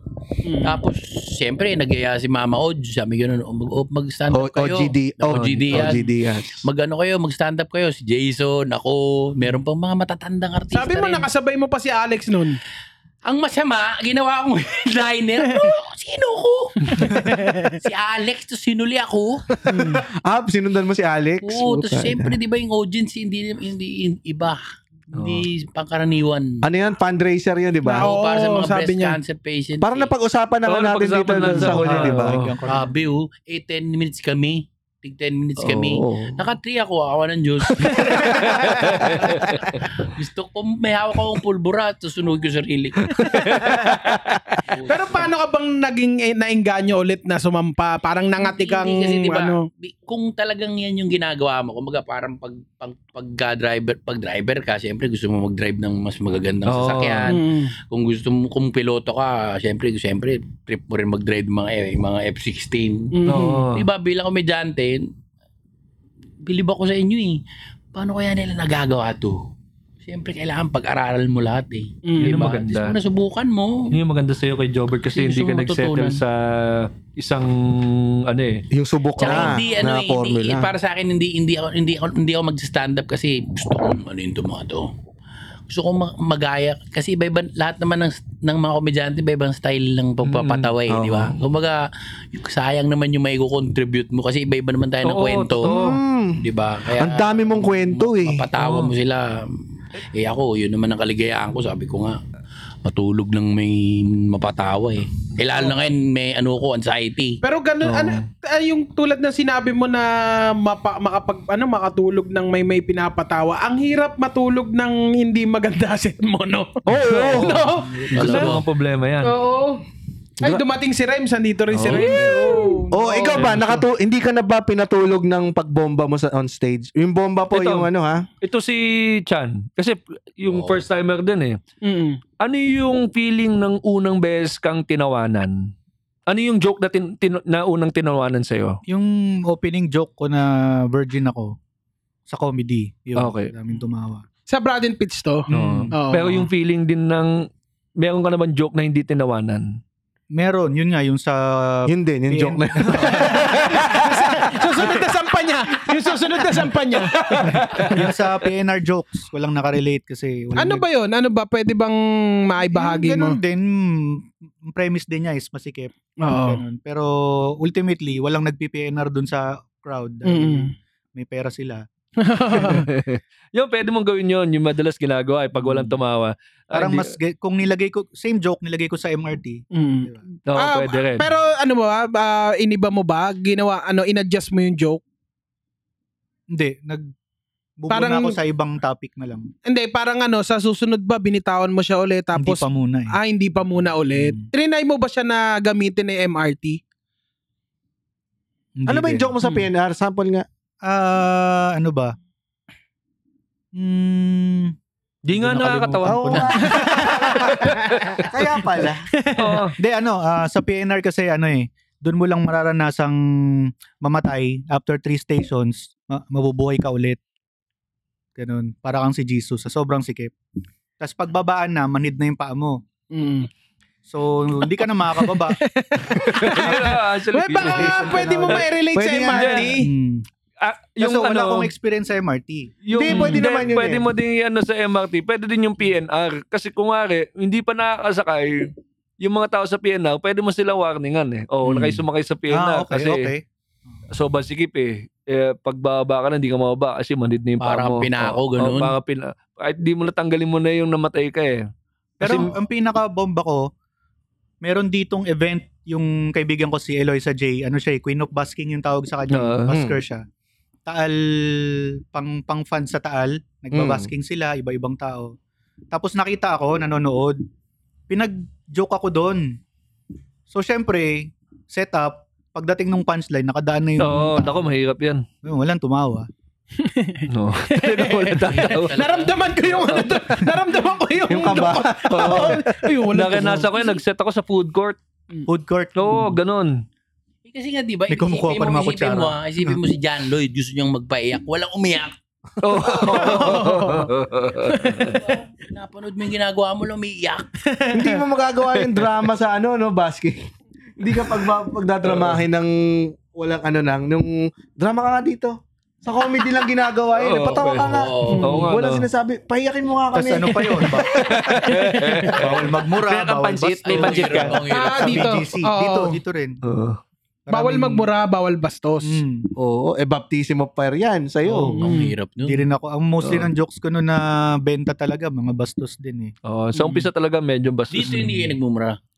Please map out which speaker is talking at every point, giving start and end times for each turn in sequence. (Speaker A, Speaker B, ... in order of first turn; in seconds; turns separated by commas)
Speaker A: 0.5-0.8, Speaker B: 0.6-6.1, Speaker C: 4.3-6.6, Speaker D: 5.3-5.9, Speaker B: 6.6-11.3, Speaker A: 10.7-12.6, Speaker B: 13.3-19.4, Speaker A: 16.9-17.8, Speaker C: 19.7-22.4, Speaker A: 19.7-20.0, Speaker B: 21.4-24.6, Speaker B: 25.1-26.6, Speaker D: 25.1-25.5, Speaker C: 26.6-28.1, Speaker A: 27.9-29.2, Speaker B: 28.0-30.1, Speaker C: 29.8-32.4, Speaker D: 30.7-32.5, Speaker E: 32.0-32.9, Speaker B: 32.7-43.7, Speaker D: 35.6-36.3, Speaker D: 38.2-39.8, Speaker D: 43.3-44.4, Speaker B: 44.7-45.3, Speaker A: 44.9-49.7, Speaker B: 48.4-63.1, Speaker D: 56.7-57.4, Speaker A: 57.3-57.7, Speaker A: 63.2-63.7, Speaker D: 63.3-63.9, Speaker B: 63.7-65.1, Speaker B: 66.4-67.4, Speaker B: 67.9-69.4, Speaker B: 70.0-73.9, Speaker A: 72.1-72.5, Speaker D: 72.2-73.0, Speaker D: 73.9-78.7, Speaker B: 75.1-76.2, Speaker C: 78.7-80.7, Speaker B: 79.2-84.9, Speaker B: 85.7-95.8, Speaker D: 90.2-90.7, Speaker C: 90.9-91.3, Speaker D: 95.0-96.0, Speaker C: 95.7-96.4, Speaker B: 96.4-99.5, Speaker C: 97.0-98.5, Speaker B: 100.2-102.2, Speaker B: 102.8-107.4, Speaker A: 107.4-118.3, Speaker C: 116.9-117.6, Speaker D: 117.3-117.6, Speaker B: 118.1-118.6, Speaker D: 118.1-119.4, Speaker A: 119.2-119.8, Speaker A: 120.4-123.6, Speaker D: 121.7-122.8, Speaker C: 122.9-128.2, Speaker D: 123.3-123.8, Speaker D: 127.5-127.9, Speaker D: 128.4-131.6, Speaker B: 130.5-130.8, Speaker A: 131.8-132.2, Speaker D: 132.4-135.7, Speaker D: 136.3-138.8, Speaker E: 138.9-141.6, Speaker E: 142.3-144.2, Speaker D: 143.2-143.5, Speaker A: 144.5-146.4, Speaker E: 145.5-145.9, Speaker D: 145.5-147.5, Speaker D: 148.0-149.8, Speaker E: 150.3-153.5, Speaker C: 151.9-154.1, Speaker A: 153.4-157.5, Speaker D: 157.3-158.1, Speaker E: 157.6-160.8, Speaker A: 160.6-163.4, Speaker E: 162.7-171.8, Speaker A: 166.2-166.6, Speaker A: 170.2-170.7, Speaker A: 172.2-172.9, Speaker D: 172.6-177.1, Speaker E: 175.6-176.0, Speaker E: 176.7-180.2, Speaker A: 179.7-185.0, Speaker D: 180.5-181.3, Speaker E: 186.5-187.1, Speaker E: 187.8-189.5, Speaker A: 187.9-188.4, Speaker A: 189.7-196.8, Speaker E: 192.4-193.2, Speaker E: 194.1-194.5, Speaker E: 198.8-199.3, Speaker C: 198.9-200.5, Speaker E: 200.8-202.2, Speaker E: 203.7-204.7, Speaker D: 205.3-206.7, Speaker E: 205.3-207.0, Speaker C: 206.1-207.7, Speaker A: 206.6-207.2, Speaker D: 207.5-208.2, Speaker C: 208.2-209.1, Speaker A: 209.1-209.7, Speaker D: 209.4-209.8, Speaker E: 209.8-217.2, Speaker E: 218.4-220.3, Speaker E: 221.0-222.8, Speaker A: 223.1-223.5, Speaker E: 224.1-225.6, Speaker A: 225.2-229.9, Speaker D: 226.3-228.7, Speaker E: 226.6-226.9, Speaker E: 227.5-228.7, Speaker D: 229.3-229.8, Speaker E: 229.6-230.2, Speaker D: 230.6-231.7, Speaker E: 231.0-232.8, Speaker D: 232.9-243.3, Speaker C: 232.9-234.1, Speaker E: 241.6-243.4, Speaker D: 244.1-251.7, Speaker B: 247.6-248.9, Speaker E: 252.2-253.7, Speaker D: 252.2-252.5, Speaker E: 254.6-260.2, Speaker D: 259.3-259.8, Speaker E: 260.9-265.3, Speaker C: 263.7-264.1, Speaker E: 265.9-267.4, Speaker E: 268.1-269.6, Speaker E: 270.5-274.6, Speaker D: 274.0-275.3, Speaker E: 275.4-276.3, Speaker A: 276.8-284.0, Speaker D: 277.3-279.0, Speaker B: 278.4-280.0, Speaker C: 281.3-282.6, Speaker D: 282.1-282.6, Speaker D: 283.1-285.0, Speaker E: 285.5-286.4, Speaker D: 285.9-286.8, Speaker B: 287.5-292.1, Speaker E: 288.1-289.8, Speaker D: 292.6-295.2, Speaker A: 293.0-294.1, Speaker A: 294.7-295.1, Speaker B: 295.1-297.5, Speaker A: 297.8-298.2, Speaker C: 297.9-300.5, Speaker C: 301.0-310.9, Speaker D: 307.2-309.1, Speaker B: 307.8-308.6, Speaker E: 310.1-311.2, Speaker D: 311.2-314.6, Speaker E: 312.3-316.6, Speaker B: 313.8-315.4, Speaker A: 314.7-316.2, Speaker D: 316.6-317.0, Speaker E: 317.5-318.1, Speaker A: 317.5-319.2, Speaker E: 319.0-319.5, Speaker C: 319.6-321.8, Speaker B: 321.6-322.6, Speaker A: 321.8-322.1, Speaker E: 322.4-326.3, Speaker D: 323.2-323.5, Speaker D: 326.4-328.4, Speaker B: 327.9-329.0